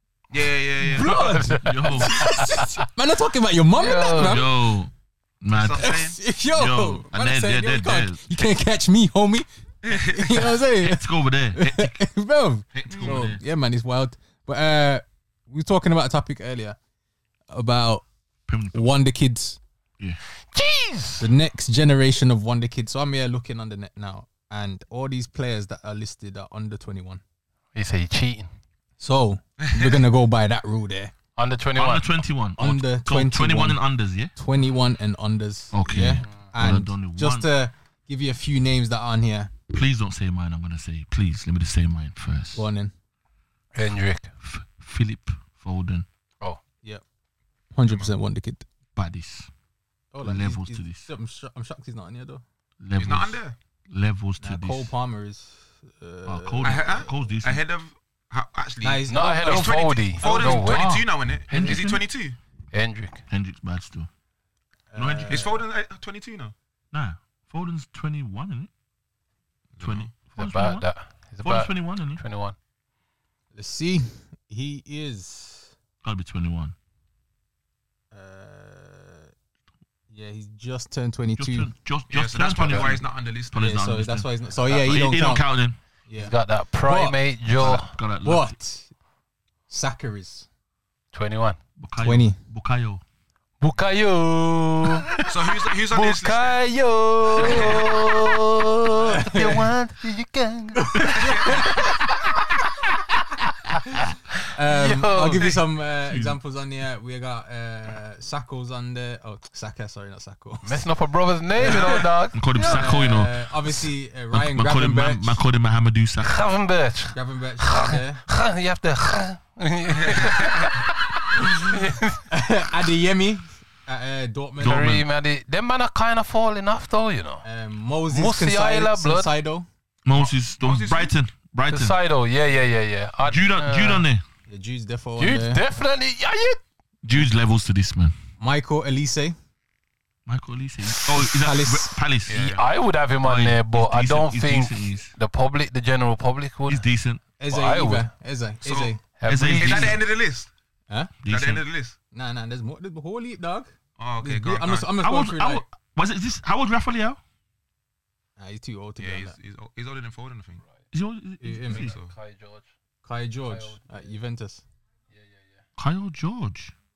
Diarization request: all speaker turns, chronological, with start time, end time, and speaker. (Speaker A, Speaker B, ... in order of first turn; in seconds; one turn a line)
Speaker A: 0.3-1.3
Speaker B: 0.9-2.9
Speaker C: 1.0-4.6
Speaker D: 1.5-2.4
Speaker B: 3.7-4.4
Speaker D: 4.1-8.3
Speaker A: 5.5-6.2
Speaker C: 5.8-16.8
Speaker A: 9.8-10.5
Speaker D: 10.8-12.0
Speaker D: 12.7-13.4
Speaker A: 12.8-13.2
Speaker C: 17.5-18.0
Speaker D: 18.5-18.9
Speaker C: 18.7-19.6
Speaker B: 20.5-21.3
Speaker C: 21.2-27.2
Speaker B: 27.7-28.5
Speaker C: 29.0-31.1
Speaker A: 29.6-30.0
Speaker B: 31.4-32.1
Speaker D: 31.8-34.3
Speaker C: 32.6-33.8
Speaker C: 34.3-39.5
Speaker D: 35.7-37.5
Speaker D: 39.7-42.6
Speaker C: 42.5-42.9
Speaker B: 43.7-44.3
Speaker D: 44.4-46.0
Speaker C: 47.7-48.6
Speaker D: 49.0-49.5
Speaker C: 50.1-52.4
Speaker D: 50.2-51.1
Speaker D: 52.8-53.4
Speaker A: 53.0-53.5
Speaker D: 53.9-54.9
Speaker C: 54.4-56.9
Speaker D: 56.2-57.6
Speaker A: 56.6-62.4
Speaker C: 58.8-61.0
Speaker B: 59.1-61.0
Speaker D: 61.5-62.0
Speaker B: 62.7-63.2
Speaker D: 63.3-64.1
Speaker C: 64.9-65.5
Speaker D: 65.0-65.5
Speaker A: 65.3-66.5
Speaker D: 66.9-68.7
Speaker A: 69.8-70.1
Speaker D: 69.8-70.8
Speaker B: 70.4-72.5
Speaker D: 71.4-72.2
Speaker C: 73.5-75.7
Speaker D: 76.0-76.7
Speaker C: 78.1-79.3
Speaker C: 80.1-81.7
Speaker D: 81.4-85.8
Speaker A: 82.1-83.6
Speaker C: 83.5-85.4
Speaker C: 86.1-86.3
Speaker B: 86.2-87.9
Speaker C: 86.8-87.2
Speaker D: 87.6-88.5
Speaker C: 88.2-88.9
Speaker C: 89.7-90.5
Speaker B: 91.1-91.6
Speaker D: 91.8-93.0
Speaker C: 92.0-92.4
Speaker B: 93.6-95.2
Speaker A: 95.3-96.6
Speaker B: 95.9-102.3
Speaker A: 97.3-98.0
Speaker C: 99.0-99.7
Speaker C: 100.8-101.8
Speaker A: 101.1-101.7
Speaker C: 104.5-110.8
Speaker B: 104.7-105.5
Speaker D: 106.1-106.4
Speaker B: 110.6-113.0
Speaker C: 111.6-115.4
Speaker D: 112.3-113.4
Speaker D: 114.3-116.4
Speaker B: 116.2-122.2
Speaker C: 117.1-118.2
Speaker A: 120.0-120.7
Speaker C: 122.3-124.8
Speaker D: 124.6-125.0
Speaker B: 124.6-127.4
Speaker C: 127.4-129.7
Speaker B: 128.1-129.3
Speaker D: 130.0-132.0
Speaker A: 130.1-131.1
Speaker B: 131.7-134.0
Speaker D: 133.2-134.2
Speaker C: 134.5-135.6
Speaker B: 135.2-136.6
Speaker D: 137.0-138.1
Speaker C: 138.4-139.3
Speaker D: 140.2-142.4
Speaker C: 141.1-142.0
Speaker A: 142.3-142.6
Speaker B: 142.3-146.8
Speaker D: 143.2-145.1
Speaker D: 146.7-147.2
Speaker C: 147.4-149.0
Speaker B: 147.5-148.1
Speaker A: 148.6-148.9
Speaker B: 149.2-150.0
Speaker D: 149.2-150.0
Speaker A: 149.6-150.5
Speaker D: 151.2-151.6
Speaker A: 151.3-151.9
Speaker C: 152.1-153.7
Speaker A: 154.0-154.9
Speaker C: 154.2-155.6
Speaker D: 155.0-157.2
Speaker C: 158.4-159.3
Speaker A: 159.0-160.6
Speaker D: 160.9-161.9
Speaker C: 161.4-161.9
Speaker B: 161.7-162.7
Speaker A: 161.7-162.1
Speaker C: 163.0-164.6
Speaker B: 163.5-163.8
Speaker B: 165.1-165.6
Speaker D: 165.8-166.7